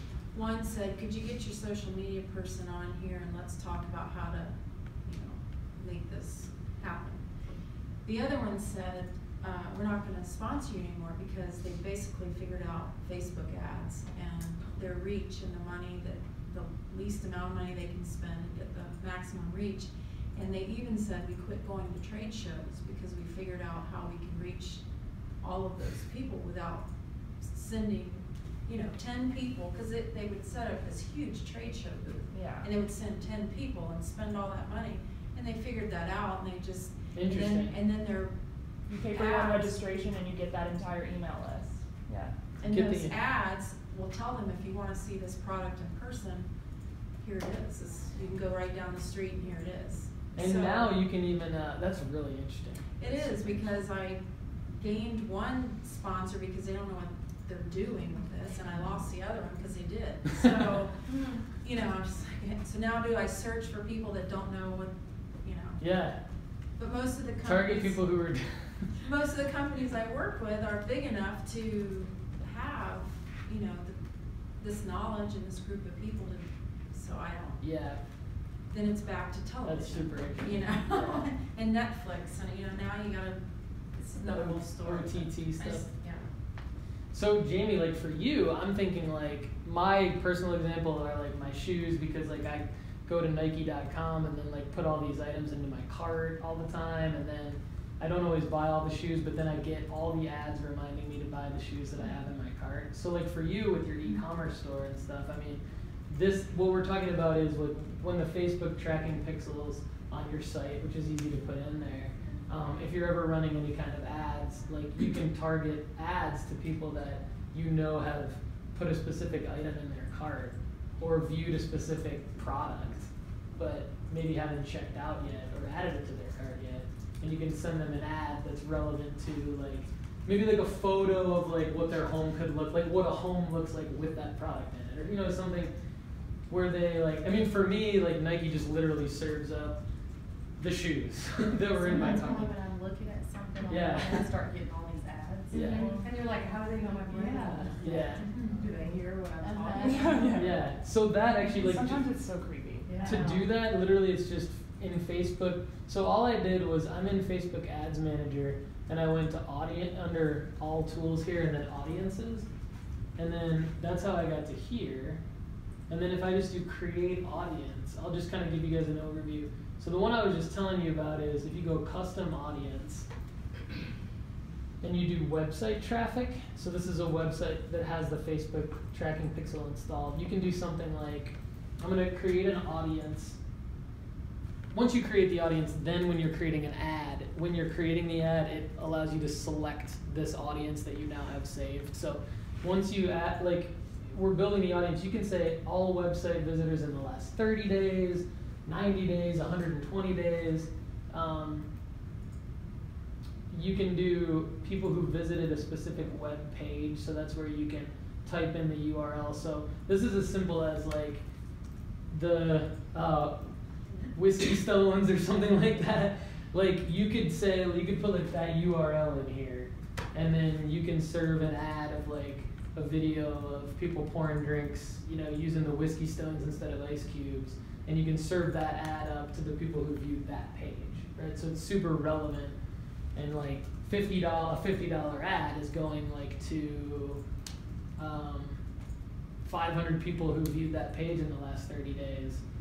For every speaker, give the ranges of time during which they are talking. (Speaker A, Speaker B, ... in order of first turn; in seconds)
Speaker A: 0.3-7.3, 8.0-24.8, 25.4-26.9, 27.4-38.3, 38.9-39.8, 42.6-46.5, 47.2-50.9, 53.0-54.2, 54.8-65.8, 66.8-68.0, 69.0-74.0, 74.6-77.6, 78.7-86.2, 141.8-146.1, 147.1-150.5, 152.9-153.4
Speaker B: 32.3-32.7, 38.9-42.3, 151.4-152.9
Speaker C: 37.1-37.8, 42.6-43.1, 50.3-53.6, 65.8-66.2, 67.4-68.9, 77.6-78.0, 79.6-81.2, 84.2-85.8, 87.1-135.7, 136.5-139.8, 140.6-142.5, 143.7-144.3, 145.5-145.9, 147.4-148.3, 150.2-152.0, 153.0-162.5, 163.2-165.2, 165.9-173.1, 174.8-183.4, 184.7-201.7, 203.5-211.2, 212.1-213.5, 214.1-232.6, 233.2-237.2, 238.0-238.6, 239.4-242.4
Speaker D: 141.9-142.3, 145.5-150.4, 153.0-153.4